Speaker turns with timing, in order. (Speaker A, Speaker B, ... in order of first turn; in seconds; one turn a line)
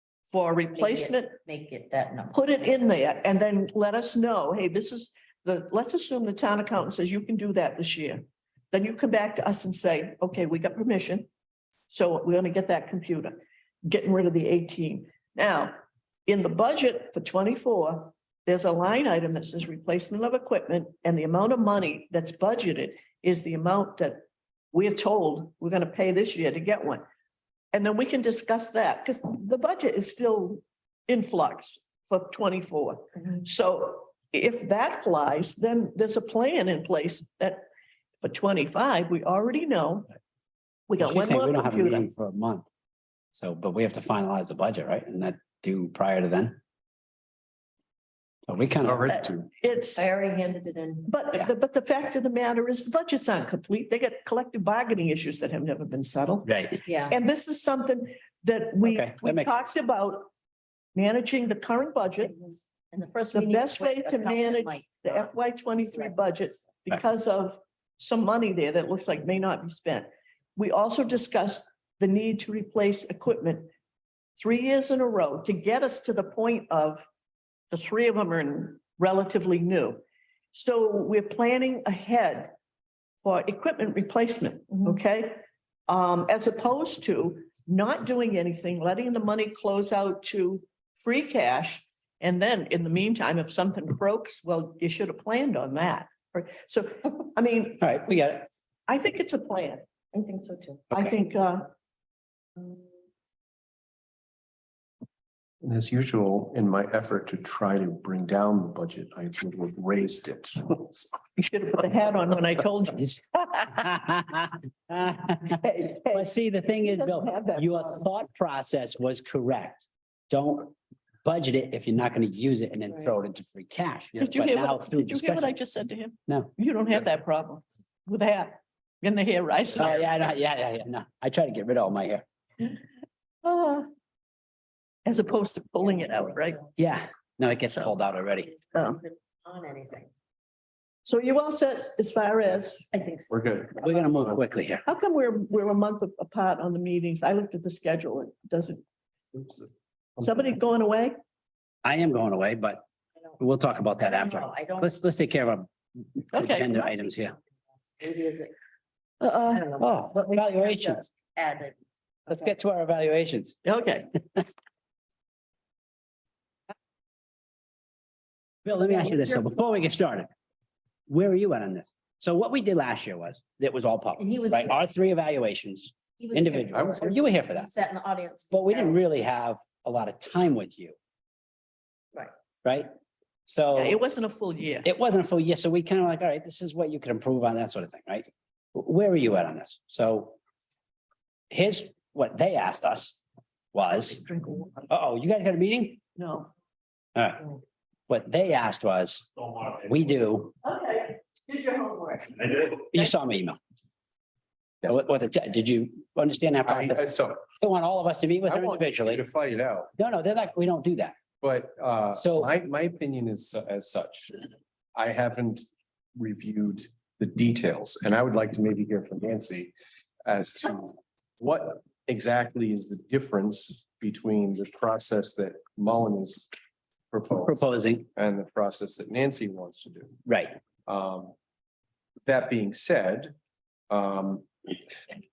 Speaker A: 0.3-1.4
Speaker B: 0.8-2.7
Speaker A: 2.3-11.3
Speaker A: 11.9-27.0
Speaker A: 27.7-37.7
Speaker A: 38.2-40.1
Speaker A: 40.9-42.1
Speaker C: 41.0-42.7
Speaker C: 43.3-46.6
Speaker C: 48.5-49.2
Speaker D: 48.8-49.3
Speaker A: 49.1-50.0
Speaker B: 50.0-51.1
Speaker A: 51.1-56.6
Speaker C: 56.5-56.8
Speaker B: 56.9-57.2
Speaker A: 57.1-60.3
Speaker C: 58.8-59.6
Speaker A: 61.0-62.4
Speaker B: 62.4-66.6
Speaker A: 63.3-73.7
Speaker A: 74.4-77.1
Speaker A: 77.7-80.0
Speaker A: 80.5-82.5
Speaker A: 83.2-97.9
Speaker C: 97.8-98.5
Speaker A: 98.9-99.8
Speaker B: 100.1-100.8
Speaker A: 100.9-101.7
Speaker D: 105.6-111.2
Speaker A: 111.4-113.7
Speaker C: 113.7-125.6
Speaker B: 115.7-116.3
Speaker B: 116.8-118.1
Speaker A: 124.2-130.0
Speaker C: 129.8-132.2
Speaker A: 133.4-133.9
Speaker A: 135.1-136.6
Speaker B: 135.9-136.5
Speaker C: 136.8-138.5
Speaker B: 138.5-140.1
Speaker A: 138.7-139.0
Speaker A: 141.0-142.9
Speaker B: 142.9-143.3
Speaker D: 143.3-144.4
Speaker C: 143.8-144.8
Speaker A: 144.9-148.8
Speaker D: 149.3-150.3
Speaker A: 150.2-151.2
Speaker C: 151.8-152.8
Speaker C: 153.4-157.3
Speaker B: 154.0-154.9
Speaker A: 156.3-156.8
Speaker B: 156.5-157.4
Speaker B: 158.0-158.5
Speaker A: 159.2-159.7
Speaker B: 159.5-161.8
Speaker C: 159.8-161.1
Speaker C: 162.3-163.6
Speaker A: 163.7-164.1
Speaker C: 168.7-170.3
Speaker B: 168.8-169.6
Speaker C: 171.1-177.7
Speaker B: 174.2-174.8
Speaker B: 176.2-179.0
Speaker D: 176.7-177.1
Speaker C: 178.5-181.0
Speaker C: 182.6-182.9
Speaker C: 183.5-184.0
Speaker A: 183.7-184.9
Speaker C: 184.8-190.4
Speaker C: 191.5-194.2
Speaker A: 193.9-194.9
Speaker C: 194.9-196.0
Speaker A: 196.2-196.5
Speaker C: 197.2-197.5
Speaker C: 198.1-200.5
Speaker A: 200.6-203.1
Speaker C: 202.9-203.6
Speaker C: 204.8-209.2
Speaker D: 206.7-207.5
Speaker D: 208.4-209.9
Speaker C: 210.0-211.2
Speaker D: 211.4-214.4
Speaker C: 212.1-212.5
Speaker D: 214.9-215.6
Speaker D: 216.2-219.7
Speaker D: 220.2-226.5
Speaker D: 227.1-227.6
Speaker C: 227.4-228.1
Speaker D: 228.1-230.2
Speaker C: 230.3-230.6
Speaker D: 230.9-231.3
Speaker D: 232.2-233.3
Speaker D: 233.9-234.5